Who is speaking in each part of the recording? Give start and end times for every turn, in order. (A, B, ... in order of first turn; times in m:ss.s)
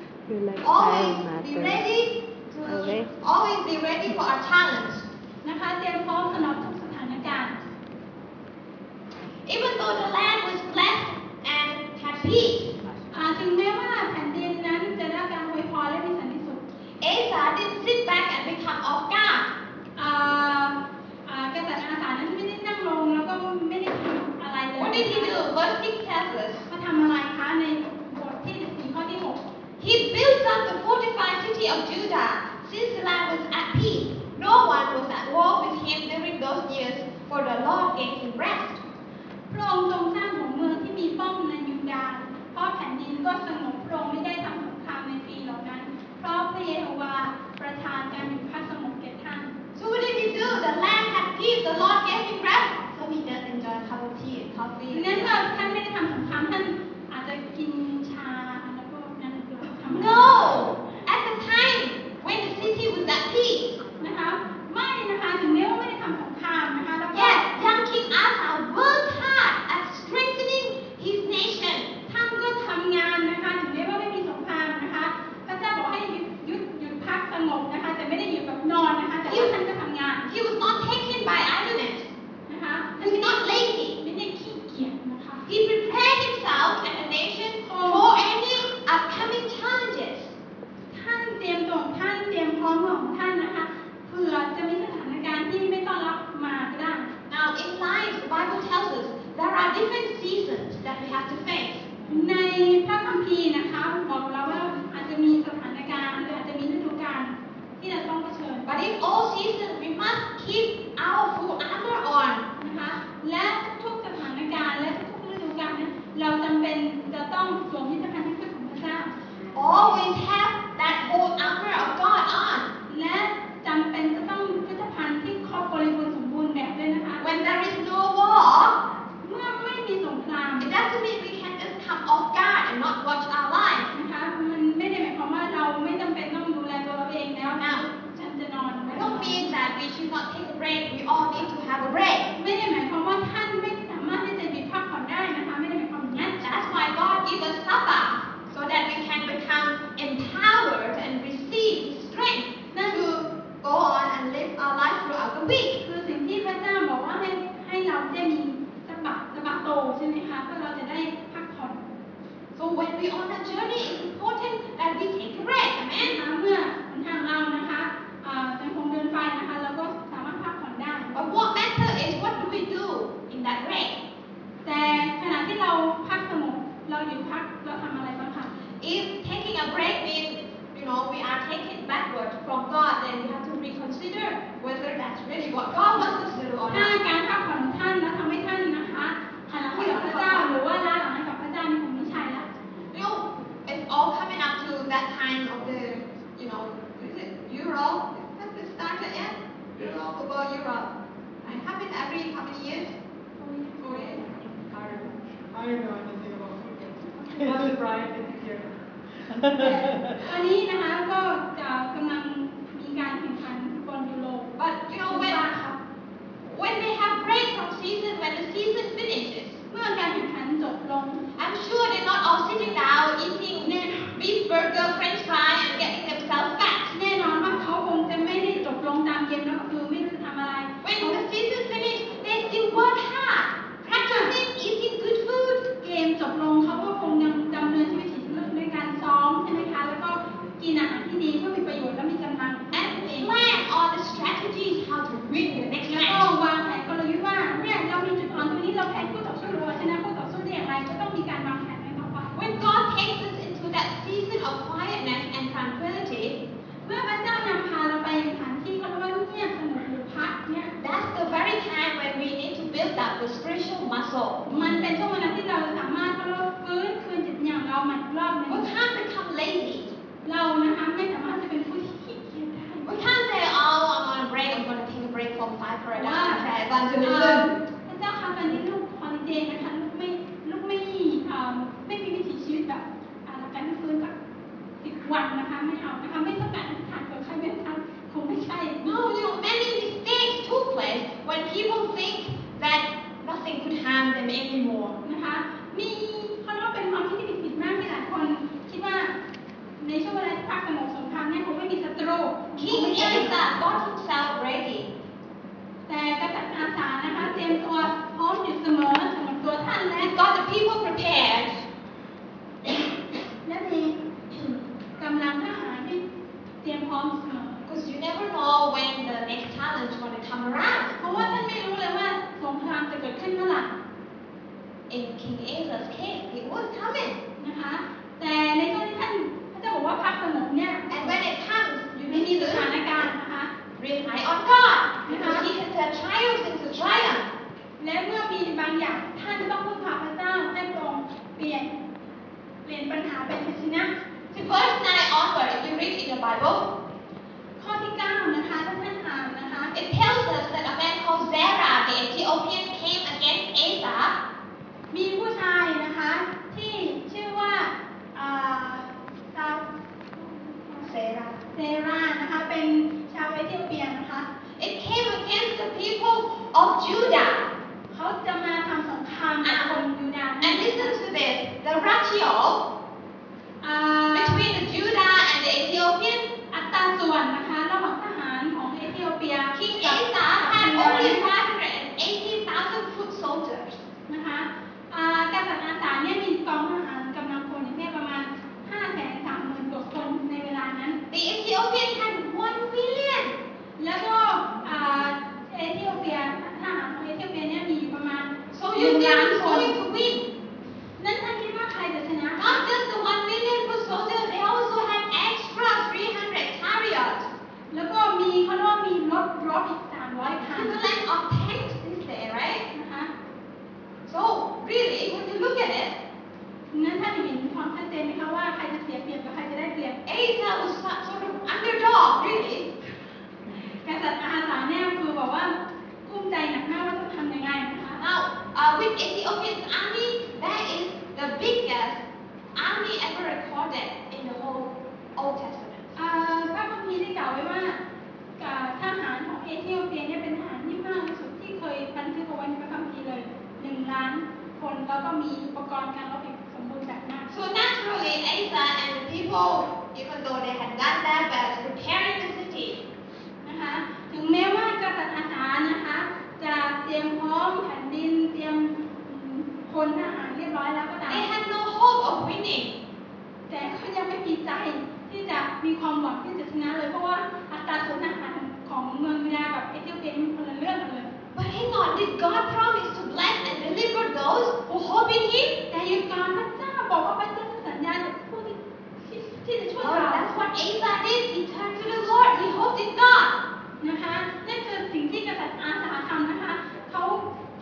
0:00.2-0:01.8 A
0:00.6-0:05.0 B
0:02.6-0:03.1 A
0:05.4-0:07.6 C
0:09.4-0:12.7 B
0:13.1-0:16.6 C
0:17.0-0:19.5 B
0:20.0-0:25.4 C
0:24.8-0:26.6 B
0:26.7-0:29.4 C
0:29.8-0:38.8 B
0:39.5-0:49.5 C
0:49.7-0:55.5 B
0:54.9-1:00.3 C
0:59.9-1:03.8 B
1:04.0-1:07.8 C
1:07.1-1:11.9 B
1:12.1-1:20.2 C
1:19.2-1:19.5 B
1:20.2-1:22.1 B
1:22.5-1:25.4 C
1:23.0-1:24.0 B
1:25.4-1:30.3 B
1:27.6-1:28.1 C
1:30.9-1:37.1 C
1:37.3-1:41.9 B
1:42.1-1:48.7 C
1:48.6-1:52.5 B
1:52.6-1:59.1 C
1:59.5-2:02.7 B
2:02.9-2:07.6 C
2:07.2-2:08.8 B
2:09.2-2:10.7 C
2:10.6-2:13.9 B
2:13.9-2:19.5 C
2:17.6-2:17.8 B
2:18.9-2:22.3 B
2:22.3-2:26.4 C
2:26.4-2:35.8 B
2:32.7-2:33.0 C
2:35.8-2:41.8 C
2:42.5-2:46.2 B
2:46.0-2:51.2 C
2:51.1-2:54.0 B
2:54.6-2:58.5 C
2:58.8-3:07.0 B
3:06.7-3:12.5 C
3:09.6-3:10.5 B
3:12.9-3:20.9 B
3:21.4-3:22.9 B
3:23.5-3:30.0 D
3:23.8-3:24.2 B
3:27.4-3:27.8 B
3:29.6-3:35.8 C
3:34.6-3:35.4 B
3:36.4-3:39.6 B
3:39.7-3:41.2 C
3:41.3-3:46.9 B
3:43.6-3:44.1 C
3:46.9-3:51.2 C
3:50.8-3:55.7 B
3:53.9-3:54.3 C
3:55.8-4:03.3 C
4:02.7-4:06.3 B
4:05.8-4:12.4 C
4:12.3-4:16.4 B
4:16.8-4:20.7 C
4:20.8-4:24.9 B
4:24.4-4:28.6 C
4:28.5-4:29.9 B
4:30.2-4:32.9 C
4:32.8-4:37.5 B
4:35.9-4:36.4 C
4:37.0-4:44.1 C
4:44.8-4:49.3 C
4:48.8-4:55.0 B
4:55.0-4:59.1 C
4:59.8-5:03.3 C
5:02.5-5:04.9 B
5:05.9-5:10.1 C
5:10.0-5:11.6 B
5:13.4-5:14.0 C
5:14.3-5:14.6 B
5:15.0-5:16.0 C
5:16.6-5:17.6 C
5:17.6-5:21.4 B
5:21.0-5:23.7 C
5:24.9-5:27.2 B
5:27.4-5:31.2 C
5:30.9-5:32.7 B
5:32.1-5:33.5 C
5:33.8-5:37.3 B
5:35.0-5:35.5 C
5:37.8-5:41.8 C
5:42.6-5:43.9 C
5:44.3-5:46.7 B
5:47.6-5:49.7 C
5:49.7-5:54.2 B
5:54.9-6:00.9 C
6:00.8-6:01.4 B
6:01.5-6:04.3 C
6:04.6-6:07.5 B
6:07.9-6:11.0 C
6:09.4-6:09.8 B
6:10.4-6:12.6 B
6:13.6-6:14.5 C
6:14.1-6:16.3 B
6:16.5-6:21.3 C
6:19.5-6:23.8 B
6:24.1-6:31.0 C
6:31.1-6:33.4 B
6:33.8-6:39.8 C
6:38.5-6:40.3 B
6:41.0-6:42.6 C
6:42.4-6:47.3 B
6:47.7-6:50.7 C
6:50.4-6:52.6 B
6:52.7-6:53.1 C
6:54.1-6:56.0 B
6:56.7-7:00.0 C
7:00.0-7:02.7 B
7:03.6-7:08.0 C
7:08.0-7:12.0 B
7:12.5-7:15.9 B
7:16.0-7:17.8 C
7:18.4-7:27.3 C
7:27.3-7:32.8 B
7:33.4-7:41.3 C
7:41.1-7:42.8 B
7:43.5-7:51.1 C
7:51.3-7:55.6 B
7:55.7-8:00.2 C
7:59.8-8:03.4 B
8:03.8-8:07.3 C